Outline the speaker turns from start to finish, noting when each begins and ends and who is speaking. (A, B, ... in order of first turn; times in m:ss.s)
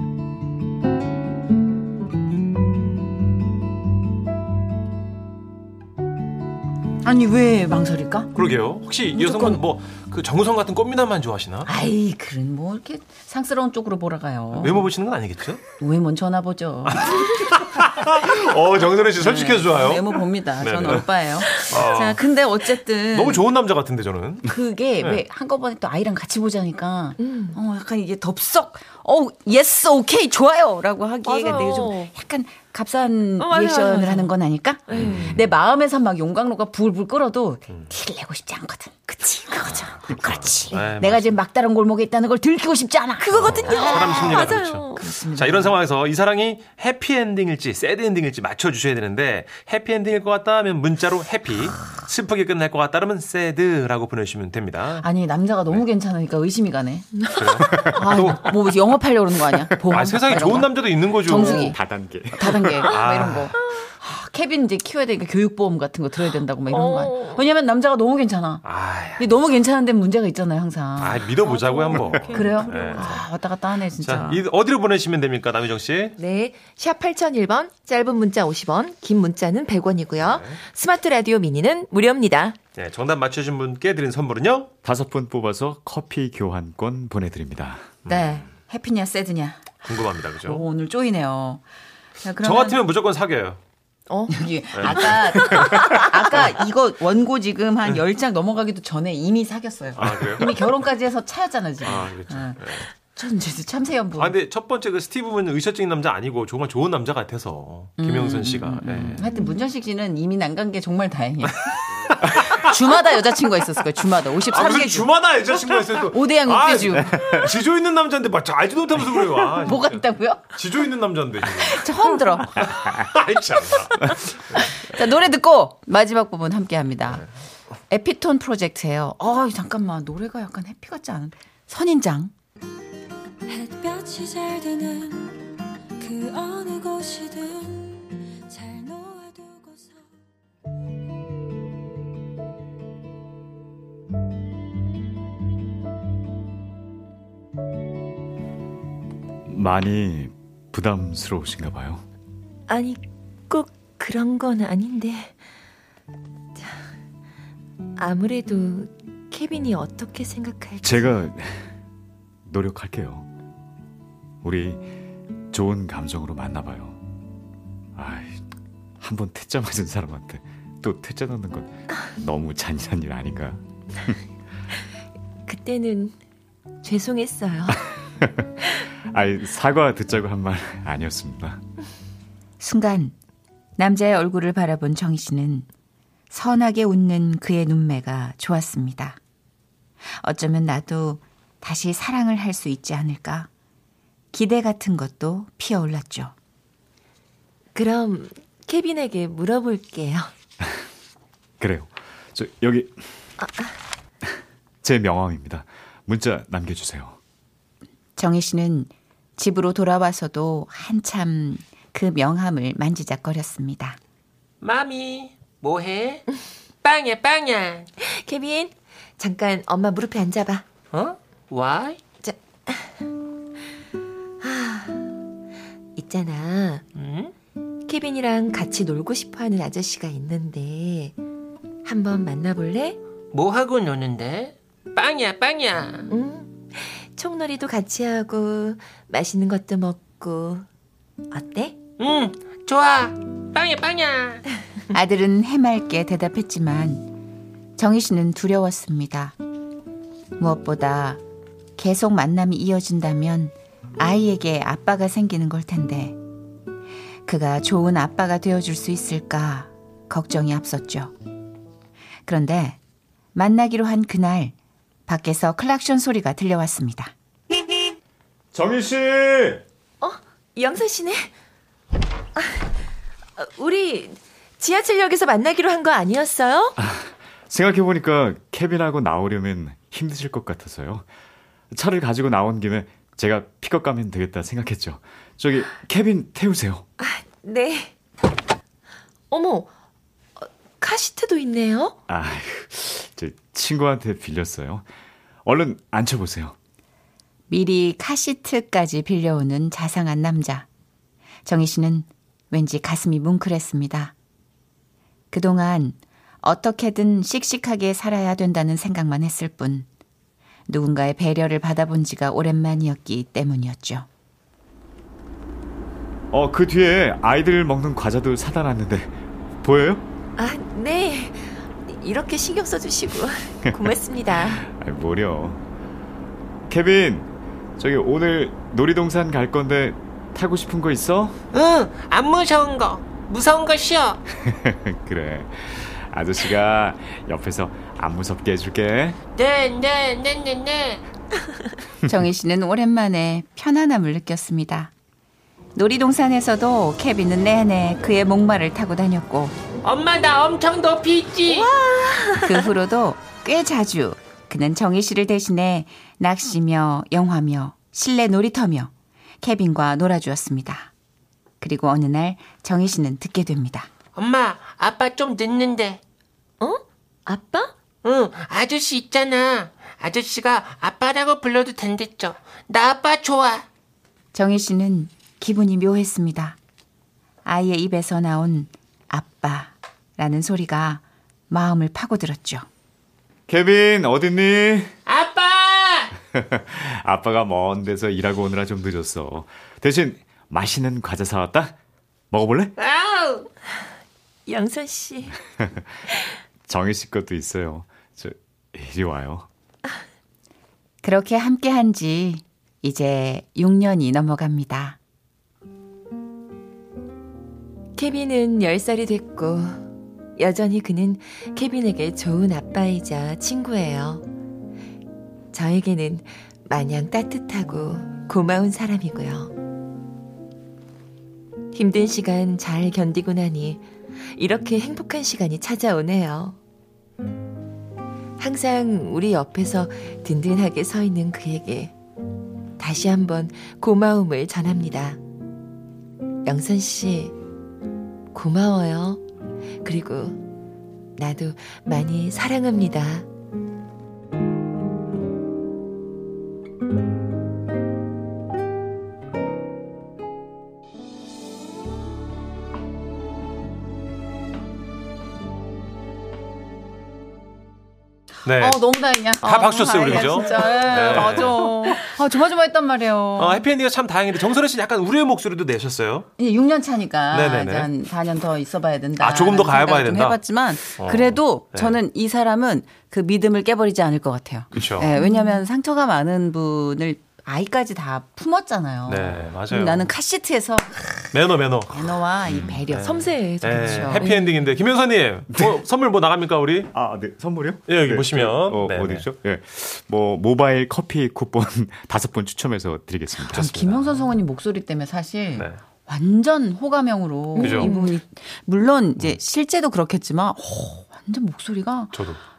0:07.0-0:08.3 A
0:08.3-0:11.7 B
0:09.1-0:09.6 A
0:11.6-0:14.9 A
0:14.5-0:15.6 B
0:15.8-0:17.6 A
0:16.9-0:22.2 B
0:19.2-0:23.4 A
0:23.1-0:25.2 B
0:24.4-0:45.8 A
0:27.2-0:27.6 C
0:31.2-0:32.1 C
0:33.4-0:34.3 C
0:34.9-0:35.3 C
0:34.9-0:35.4 B
0:39.6-0:39.9 C
0:39.7-0:41.4 B
0:43.2-0:45.0 C
0:43.3-0:55.1 B
0:55.0-1:01.8 A
0:57.3-0:58.6 B
0:59.9-1:01.8 B
1:01.5-1:02.9 D
1:02.3-1:08.6 A
1:02.8-1:03.6 B
1:06.7-1:07.4 C
1:08.6-1:09.4 B
1:09.2-1:14.4 A
1:11.0-1:13.2 B
1:11.4-1:13.2 C
1:14.0-1:16.2 B
1:16.2-1:22.6 C
1:20.2-1:20.6 B
1:22.8-1:24.7 B
1:24.8-1:28.0 D
1:28.0-1:28.5 B
1:28.1-1:31.6 A
1:29.8-1:30.6 B
1:32.2-1:32.8 A
1:32.4-1:33.6 B
1:34.1-1:34.4 C
1:34.3-1:44.4 A
1:34.7-1:35.6 B
1:39.9-1:40.6 B
1:41.8-1:42.9 B
1:44.2-1:49.3 B
1:48.0-1:57.2 A
1:52.2-1:53.0 B
1:54.5-2:01.9 B
1:59.4-2:00.7 A
2:01.6-2:02.7 A
2:02.6-2:04.6 B
2:04.5-2:07.2 A
2:07.9-2:12.3 A
2:13.5-2:20.1 E
2:29.5-2:32.0 D
2:32.7-2:35.4 C
2:36.6-2:36.8 C
2:38.0-2:41.1 C
2:40.8-2:41.7 D
2:42.4-2:43.2 D
2:44.4-2:44.9 D
2:45.5-2:47.0 D
2:47.9-2:48.4 D
2:49.0-2:54.1 D
2:55.5-2:56.1 C
2:56.8-2:57.9 C
2:58.2-2:58.5 D
2:59.1-3:01.6 D
3:02.6-3:03.1 F
3:03.8-3:05.6 F
3:06.3-3:09.2 F
3:10.2-3:13.5 F
3:14.3-3:16.3 F
3:17.7-3:20.3 C
3:21.6-3:23.1 D
3:23.4-3:23.7 C
3:24.2-3:27.2 D
3:28.2-3:34.0 F
3:34.6-3:36.2 G
3:36.8-3:37.9 G
3:38.0-3:40.6 C
3:40.9-3:42.0 G
3:42.2-3:43.0 C
3:44.4-3:45.1 C
3:46.0-3:46.8 C
3:46.9-3:47.3 G
3:47.9-3:51.2 C
3:51.8-3:53.0 C
3:53.3-3:56.1 G
3:56.1-4:00.6 C
4:01.3-4:01.8 C
4:02.0-4:04.4 G
4:04.9-4:07.1 F
4:07.8-4:09.4 F
4:10.4-4:11.2 F
4:11.8-4:16.2 F
4:17.2-4:21.1 F
4:22.2-4:22.8 F
4:23.3-4:24.5 F
4:25.1-4:27.1 F
4:28.5-4:29.6 D
4:30.0-4:31.3 C
4:32.4-4:32.7 C
4:33.4-4:36.8 C
4:36.8-4:41.0 D
4:41.7-4:46.8 D
4:47.0-4:47.9 C
4:49.3-4:49.7 C
4:50.4-4:52.0 C
4:52.1-4:54.8 D
4:55.4-4:56.6 D
4:57.5-5:00.7 F
5:01.4-5:04.1 F
5:05.3-5:09.9 F
5:10.7-5:14.1 F
5:16.3-5:20.0 D
5:20.4-5:24.7 C
5:23.8-5:25.6 D
5:26.7-5:31.4 D
5:31.5-5:34.2 G
5:34.3-5:39.2 D
5:39.4-5:41.0 G
5:42.0-5:44.9 F
5:45.8-5:49.6 F
5:49.8-5:51.7 G
5:51.5-5:52.6 C
5:52.4-5:58.9 F
5:59.4-6:00.9 F
6:01.6-6:03.9 F
6:04.2-6:06.0 G
6:06.6-6:07.7 C
6:08.0-6:13.6 G
6:14.3-6:16.6 F
6:17.4-6:22.6 F
6:23.5-6:24.9 D
6:25.0-6:26.1 G
6:26.3-6:31.8 D
6:32.3-6:32.7 D
6:32.8-6:33.5 G
6:34.4-6:35.4 C
6:36.7-6:39.5 D
6:41.0-6:45.0 F
6:48.0-6:49.8 C
6:50.4-6:54.2 C
6:55.5-6:59.5 C
7:01.7-7:06.6 C
7:08.4-7:11.9 C
7:12.8-7:15.2 C
7:16.4-7:17.3 C
7:18.3-7:19.2 C
7:19.8-7:20.4 C
7:21.2-7:23.2 C
7:38.4-7:38.8 B
7:38.5-7:43.6 A
7:39.4-7:42.0 B
7:43.4-7:46.3 B
7:46.4-8:01.4 A
7:47.3-7:47.9 B
7:49.2-7:50.4 B
7:51.0-7:52.0 B
7:54.7-7:55.2 B
7:55.2-7:55.5 C
7:59.1-8:00.1 B
8:01.3-8:06.9 B
8:01.9-8:04.5 A
8:03.0-8:04.4 C
8:05.5-8:05.8 D
8:06.9-8:13.7 D
8:07.9-8:09.3 B
8:13.5-8:22.2 A
8:13.5-8:14.2 B
8:17.6-8:18.1 C
8:17.6-8:17.9 B
8:22.1-8:22.4 B